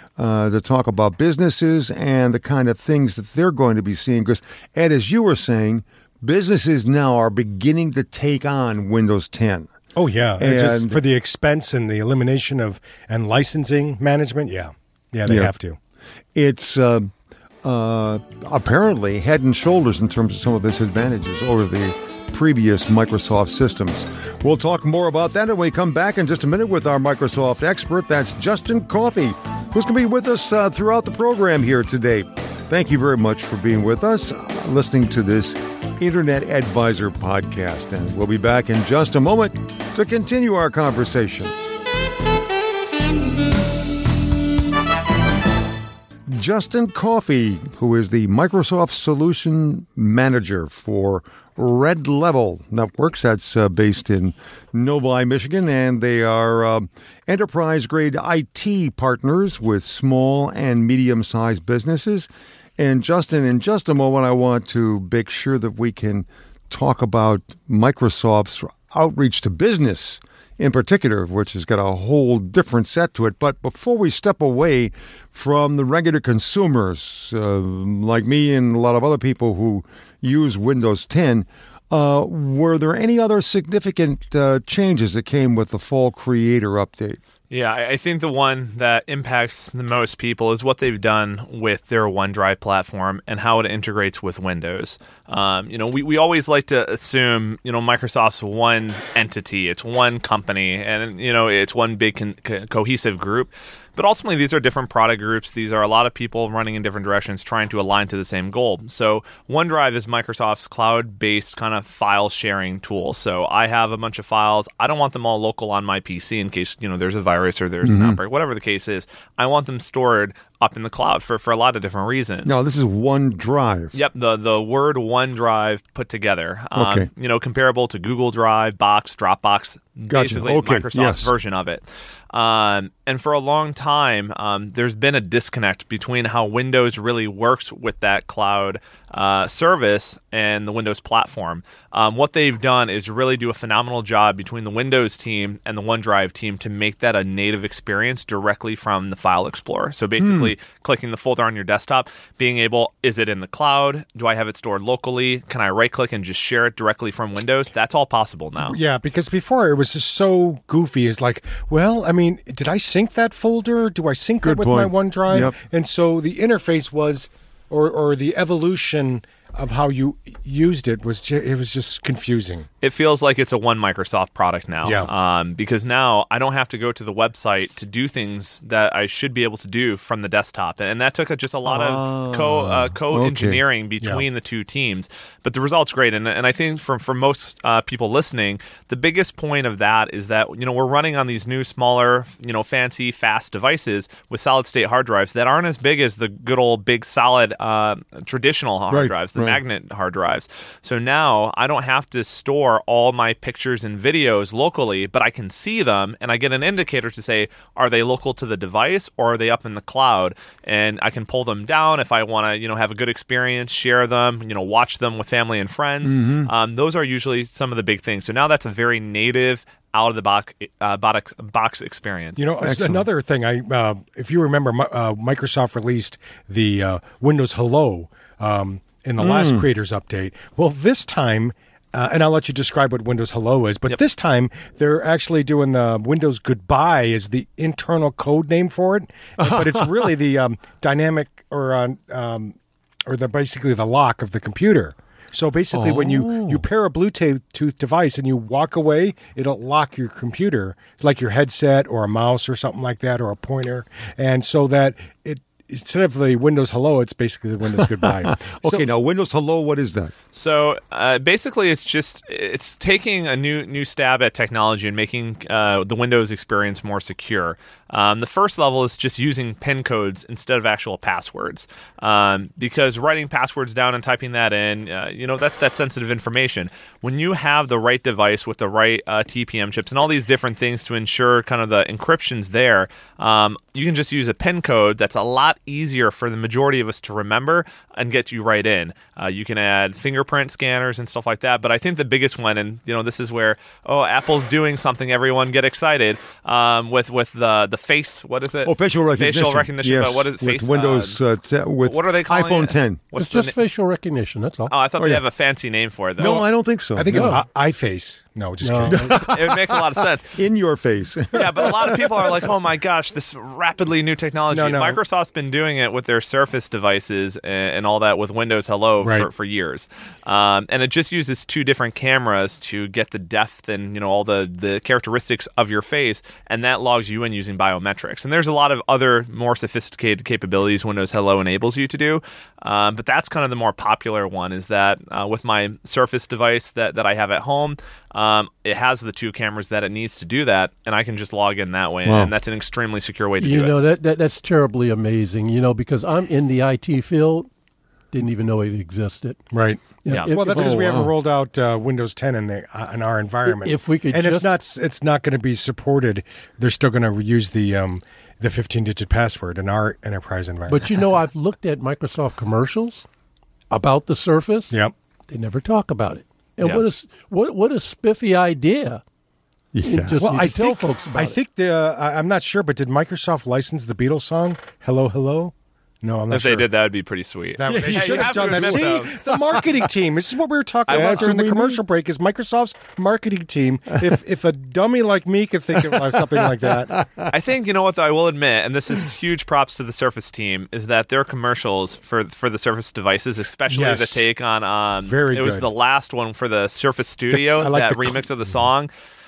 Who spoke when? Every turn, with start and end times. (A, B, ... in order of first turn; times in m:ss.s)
0:00.2-0:09.7 A
0:10.0-0:15.8 B
0:10.4-0:11.0 A
0:15.3-0:15.5 A
0:16.4-0:41.5 A
0:46.3-1:27.2 A
1:27.5-2:02.5 C
1:57.8-1:58.2 A
2:02.4-2:04.0 A
2:03.9-2:38.8 C
2:06.8-2:07.1 A
2:10.1-2:11.3 A
2:30.2-2:30.5 A
2:38.6-2:52.7 B
2:44.4-2:45.6 A
2:52.8-3:42.4 C
2:54.8-2:55.1 B
3:01.6-3:03.6 A
3:18.9-3:19.6 A
3:36.0-3:36.5 A
3:42.4-4:02.6 B
3:42.6-3:43.0 A
3:49.2-3:49.7 A
3:59.4-4:00.1 A
4:03.1-4:18.8 B
4:05.7-4:06.6 A
4:17.8-4:20.1 A
4:20.3-5:01.2 C
4:58.6-5:03.0 A
5:01.8-5:03.6 C
5:03.2-5:04.7 D
5:04.7-5:06.4 C
5:05.0-5:05.2 A
5:06.2-5:07.4 A
5:07.0-5:09.2 B
5:07.1-5:07.4 D
5:08.6-5:09.2 D
5:08.9-5:12.4 A
5:09.2-5:10.4 C
5:11.3-5:43.7 C
5:14.5-5:15.0 B
5:19.0-5:19.3 B
5:42.1-5:42.3 A
5:43.4-5:47.5 D
5:48.1-5:49.4 D
5:49.5-6:00.9 B
5:50.0-5:51.0 D
5:50.1-5:50.3 C
5:50.5-5:51.1 A
5:53.5-5:54.5 D
6:00.7-6:03.1 D
6:03.7-6:04.8 D
6:05.3-6:09.0 D
6:09.7-6:10.2 A
6:09.8-6:11.4 D
6:10.2-6:16.7 B
6:16.3-6:19.1 C
6:17.6-6:27.0 B
6:17.7-6:19.6 A
6:20.9-6:21.3 C
6:20.9-6:21.8 A
6:25.8-6:27.3 A
6:27.3-6:38.9 C
6:33.7-6:34.3 B
6:35.0-6:35.7 B
6:37.3-6:38.3 B